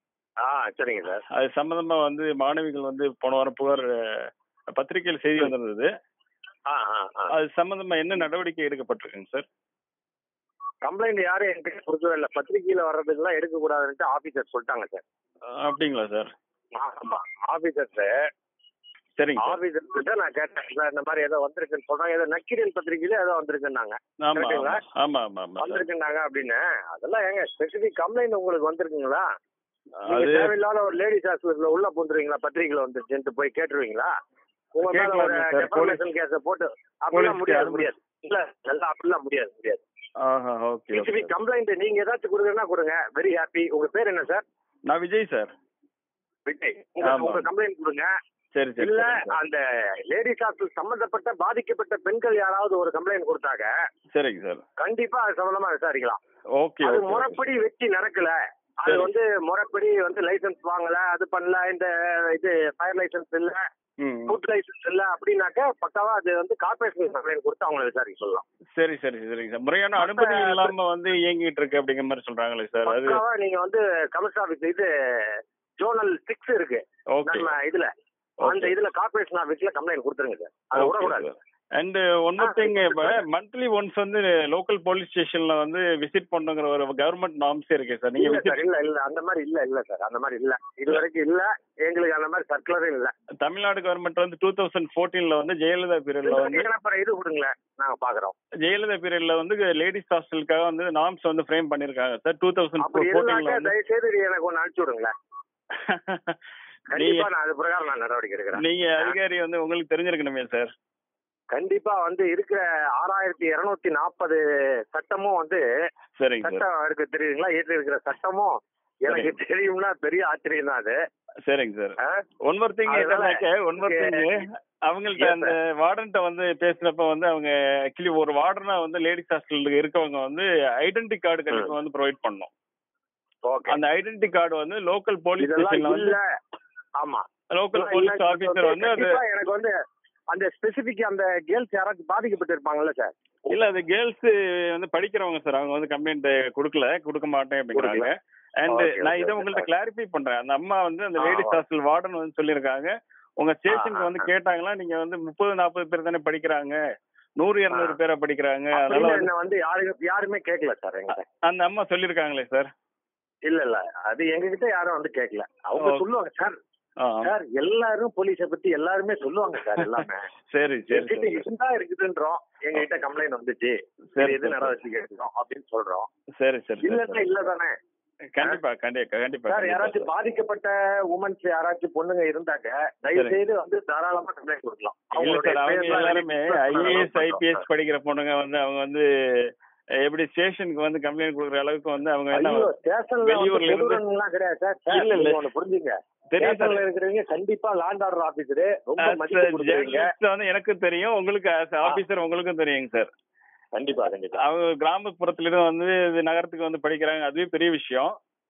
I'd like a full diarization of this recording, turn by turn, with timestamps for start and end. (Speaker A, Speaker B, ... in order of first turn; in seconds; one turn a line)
Speaker A: 0.4-1.2
Speaker B: 1.3-5.9
Speaker A: 6.7-7.3
Speaker B: 7.3-9.4
Speaker A: 10.8-15.0
Speaker B: 15.6-16.3
Speaker A: 16.8-18.2
Speaker B: 19.2-19.6
Speaker A: 19.4-24.8
Speaker B: 24.2-25.8
Speaker A: 25.6-29.3
Speaker B: 30.0-30.5
Speaker A: 30.1-34.1
Speaker A: 34.8-39.8
Speaker B: 34.8-36.0
Speaker B: 37.1-37.9
Speaker B: 40.2-41.3
Speaker A: 40.9-44.4
Speaker B: 44.9-45.5
Speaker A: 46.5-48.1
Speaker B: 47.0-47.5
Speaker B: 48.5-49.3
Speaker A: 48.8-53.7
Speaker B: 54.1-54.6
Speaker A: 54.8-56.2
Speaker B: 56.6-57.4
Speaker A: 56.8-63.6
Speaker B: 64.0-64.4
Speaker A: 64.3-68.4
Speaker B: 68.8-73.2
Speaker A: 70.0-70.7
Speaker A: 72.8-77.9
Speaker B: 77.1-77.5
Speaker B: 78.4-78.7
Speaker A: 78.4-81.3
Speaker B: 80.7-88.6
Speaker A: 82.4-83.2
Speaker A: 88.2-93.1
Speaker B: 93.4-96.7
Speaker A: 96.2-98.3
Speaker B: 98.6-103.7
Speaker A: 102.8-105.1
Speaker B: 105.8-106.4
Speaker A: 106.9-109.2
Speaker B: 106.9-107.3
Speaker B: 108.6-110.7
Speaker A: 111.5-114.4
Speaker A: 114.9-115.6
Speaker B: 116.2-116.6
Speaker A: 116.4-121.0
Speaker B: 119.1-119.3
Speaker B: 121.5-132.5
Speaker A: 122.9-124.3
Speaker A: 125.2-125.5
Speaker A: 133.4-133.8
Speaker B: 133.7-136.2
Speaker A: 135.4-136.2
Speaker A: 137.0-139.7
Speaker B: 137.5-139.2
Speaker A: 140.3-143.1
Speaker B: 143.5-156.8
Speaker A: 147.7-148.1
Speaker A: 148.7-149.7
Speaker A: 151.2-151.6
Speaker A: 153.7-154.3
Speaker B: 157.4-159.3
Speaker A: 157.7-158.0
Speaker A: 158.7-161.2
Speaker B: 161.1-162.7
Speaker A: 163.5-166.6
Speaker B: 165.8-166.0
Speaker B: 167.0-167.3
Speaker A: 167.2-170.3
Speaker B: 170.5-171.4
Speaker A: 170.9-176.1
Speaker B: 174.1-174.7
Speaker B: 176.4-177.3
Speaker A: 176.8-177.7
Speaker B: 178.3-180.1
Speaker A: 179.5-187.6
Speaker B: 185.1-189.5
Speaker B: 190.0-192.7
Speaker A: 192.3-200.1
Speaker B: 193.2-194.0
Speaker B: 194.9-195.4
Speaker B: 196.3-196.8
Speaker B: 199.0-203.1
Speaker A: 203.7-204.4
Speaker B: 204.4-208.2